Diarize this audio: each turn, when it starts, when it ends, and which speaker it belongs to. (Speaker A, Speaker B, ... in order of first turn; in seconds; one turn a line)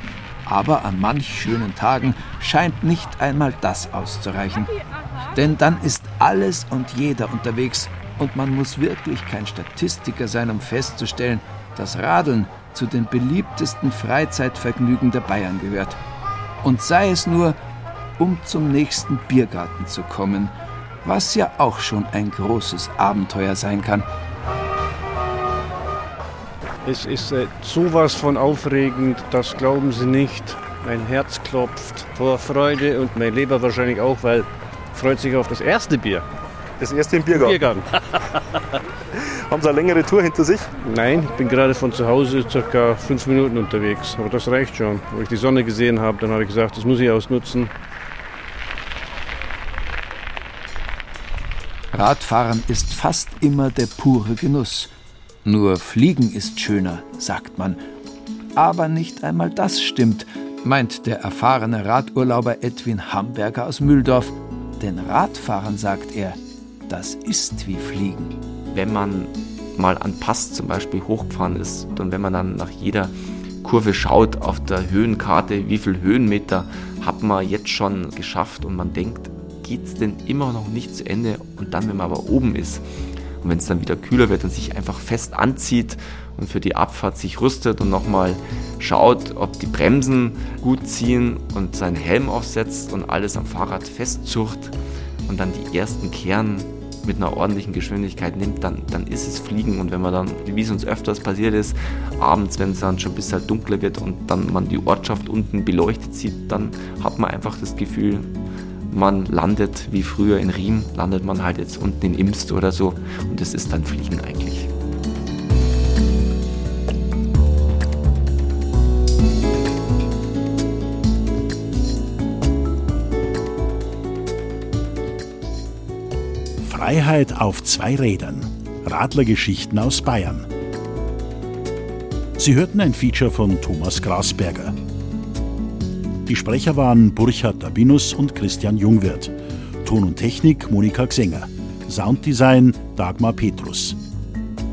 Speaker A: 0.4-4.7
Speaker A: 5.3-16.0
Speaker A: 16.6-17.6
Speaker A: 18.2-24.1
Speaker B: 26.8-36.2
Speaker C: 36.8-37.6
Speaker B: 37.3-38.0
Speaker C: 39.5-40.7
Speaker B: 40.8-47.7
Speaker A: 51.9-54.9
Speaker A: 55.4-57.8
Speaker A: 58.5-68.3
Speaker D: 68.7-82.8
Speaker D: 83.4-94.7
Speaker D: 95.2-108.3
Speaker D: 108.9-114.7
Speaker E: 126.6-130.4
Speaker E: 132.4-134.8
Speaker E: 136.2-144.0